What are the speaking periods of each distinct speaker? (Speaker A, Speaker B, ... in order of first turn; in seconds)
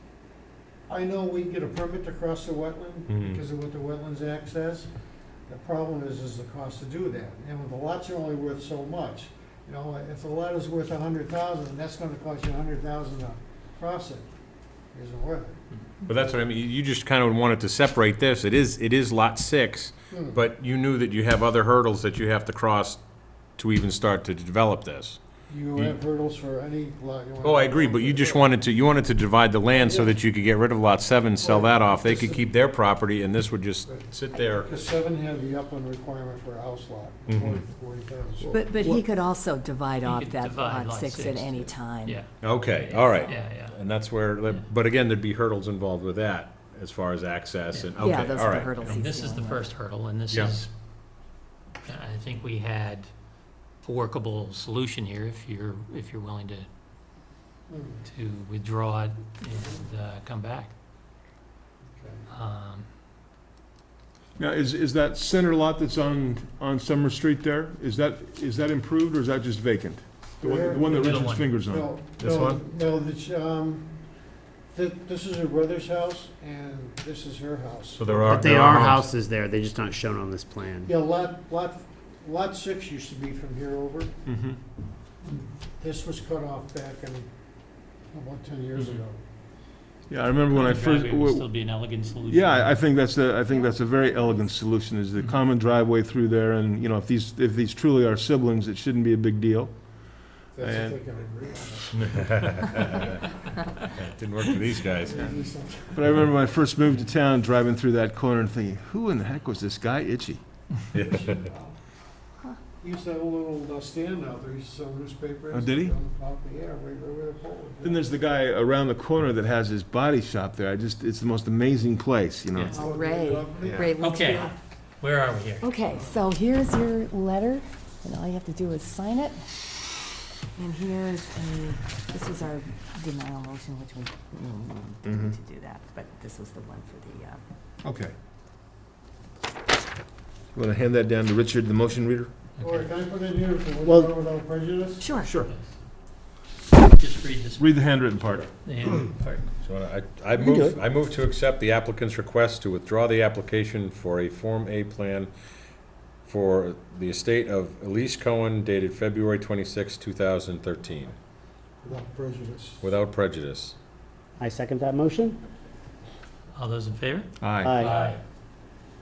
Speaker A: 0.9-4.9, 5.5-14.2, 14.9-15.6, 20.1-20.4, 25.5-28.5, 29.7-30.1, 31.4-32.5, 33.9-38.6, 57.7-58.0, 61.9-62.2, 70.4-73.9, 74.7-78.4, 80.8-84.1, 85.3-87.3, 88.1-89.2, 100.5-102.2, 105.0-106.2, 111.2-111.7, 112.8-118.1, 122.7-123.9, 142.6-145.1, 161.8-162.8
Speaker B: 3.1-3.4, 16.1-23.0, 23.6-25.2, 27.4-34.7, 37.3-37.6, 42.4-48.9, 72.2-72.6, 77.9-79.0, 101.9-103.2, 103.9-105.2, 110.9-111.4, 149.6-155.3, 156.2-161.1, 162.8-163.7
Speaker C: 38.5-39.0, 64.4-71.9, 84.2-84.6, 90.1-91.5, 92.2-101.0, 105.9-110.4, 115.5-115.9, 117.8-122.8, 123.6-123.9, 135.0-135.3, 137.8-138.1, 140.5-142.3, 147.6-148.5, 167.4-167.9
Speaker D: 38.5-42.2, 48.0-49.7, 122.8-124.5, 125.6-129.4, 130.6-137.4, 145.0-145.4
Speaker E: 40.0-43.8, 48.8-50.7, 51.8-53.1, 53.8-56.7, 58.0-60.7, 62.3-62.9, 70.9-71.5, 90.5-92.8, 122.5-122.8, 124.0-125.7, 142.6-142.9, 146.9-147.8, 148.6-149.5, 166.5-168.2
Speaker F: 78.3-80.9, 143.8-144.1, 150.4-150.8, 164.4-165.4, 167.6-167.9